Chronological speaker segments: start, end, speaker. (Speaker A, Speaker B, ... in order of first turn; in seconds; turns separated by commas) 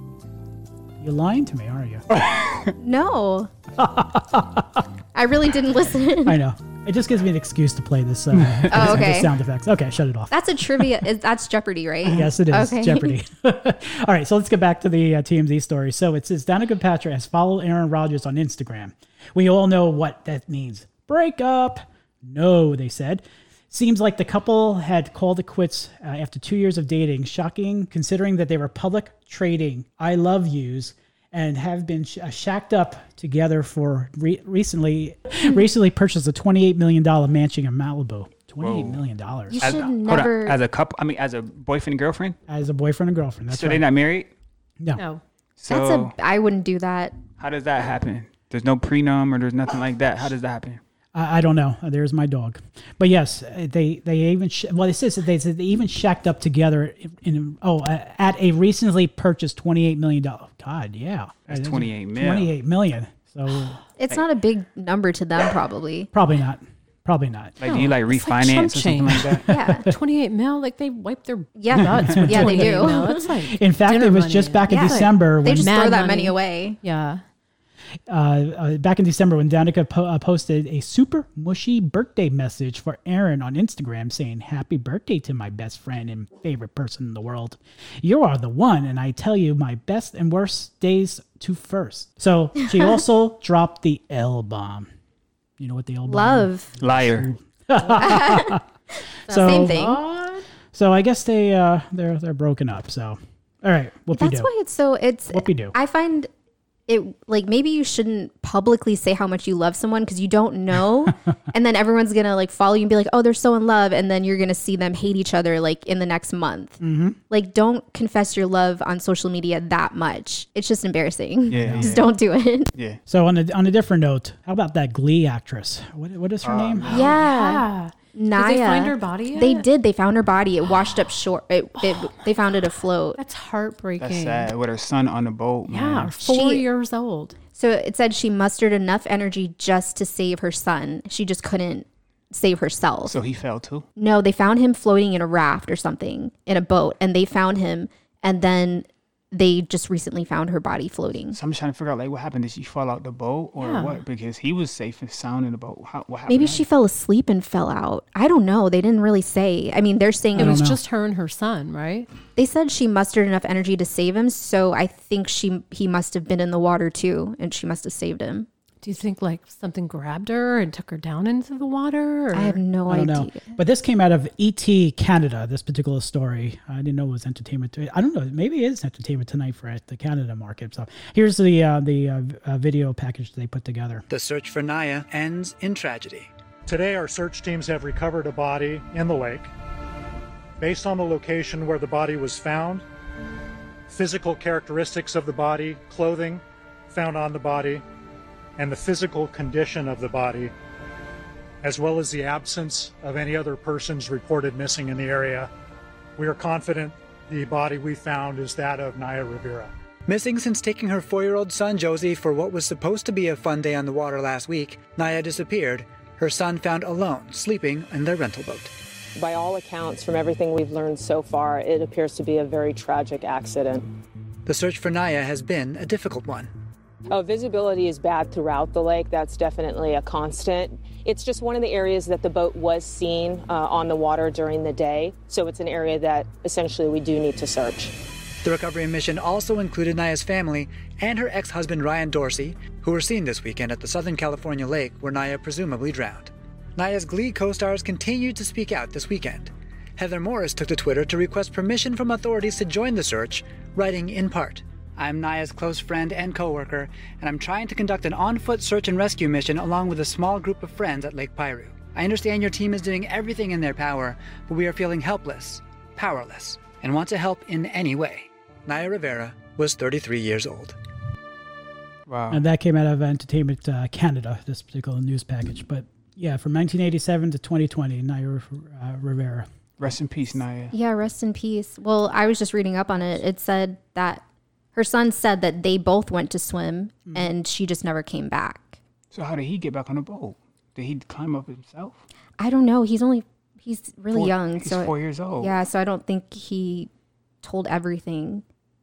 Speaker A: 1.0-2.0, Speaker B: 2.1-2.7, Speaker C: 2.8-3.5, Speaker A: 3.8-4.8, Speaker C: 5.1-6.3, Speaker A: 6.2-10.9, Speaker C: 8.7-9.3, Speaker C: 10.3-13.1, Speaker A: 12.1-39.8, Speaker B: 38.6-39.0, Speaker C: 39.5-40.6, Speaker B: 39.6-42.4, Speaker A: 42.5-43.9, Speaker B: 43.5-44.3, Speaker D: 45.0-45.2, Speaker B: 45.6-46.1, Speaker C: 45.7-47.2, Speaker B: 47.4-50.8, Speaker A: 51.1-63.8, Speaker B: 61.5-62.5, Speaker C: 64.0-66.1, Speaker A: 66.1-67.6, Speaker B: 67.6-69.5, Speaker D: 67.6-77.2, Speaker C: 69.5-69.9, Speaker C: 71.6-73.3, Speaker A: 72.0-72.9, Speaker A: 73.4-75.8, Speaker C: 74.7-76.8, Speaker A: 78.1-94.9, Speaker A: 95.6-98.6, Speaker C: 96.1-96.7, Speaker B: 96.8-97.3, Speaker C: 98.0-100.0, Speaker A: 99.3-100.1, Speaker D: 99.3-100.4, Speaker A: 100.7-104.5, Speaker C: 104.1-106.3, Speaker A: 105.3-105.7, Speaker C: 106.9-122.7, Speaker A: 116.8-117.2, Speaker B: 121.5-122.1, Speaker A: 121.5-122.0, Speaker B: 122.7-123.0, Speaker A: 123.1-126.9, Speaker B: 126.4-127.2, Speaker D: 126.9-129.7, Speaker C: 126.9-133.2, Speaker D: 131.8-132.2, Speaker D: 133.2-134.5, Speaker B: 134.0-136.1, Speaker D: 135.7-137.3, Speaker C: 136.2-136.6, Speaker C: 137.5-143.2, Speaker B: 143.1-143.8, Speaker C: 143.9-151.4, Speaker B: 151.3-156.6, Speaker D: 153.6-154.0, Speaker C: 156.3-160.7, Speaker A: 160.3-160.8, Speaker D: 160.3-162.1, Speaker C: 162.3-168.5, Speaker D: 168.8-172.6, Speaker C: 172.3-173.5, Speaker A: 172.9-184.0, Speaker E: 184.1-186.3, Speaker F: 186.7-189.5, Speaker F: 190.6-192.8, Speaker F: 193.9-197.8, Speaker F: 198.6-200.5, Speaker F: 201.6-205.5, Speaker F: 206.2-209.7, Speaker E: 210.1-218.7, Speaker G: 219.1-223.9, Speaker E: 224.4-226.5, Speaker G: 227.1-237.9, Speaker E: 238.4-270.8, Speaker B: 272.1-272.4, Speaker A: 272.3-279.5, Speaker B: 279.8-280.7, Speaker C: 280.7-284.2, Speaker C: 284.7-288.8, Speaker B: 289.1-292.0, Speaker C: 292.4-296.9, Speaker B: 294.1-295.6, Speaker C: 297.4-298.4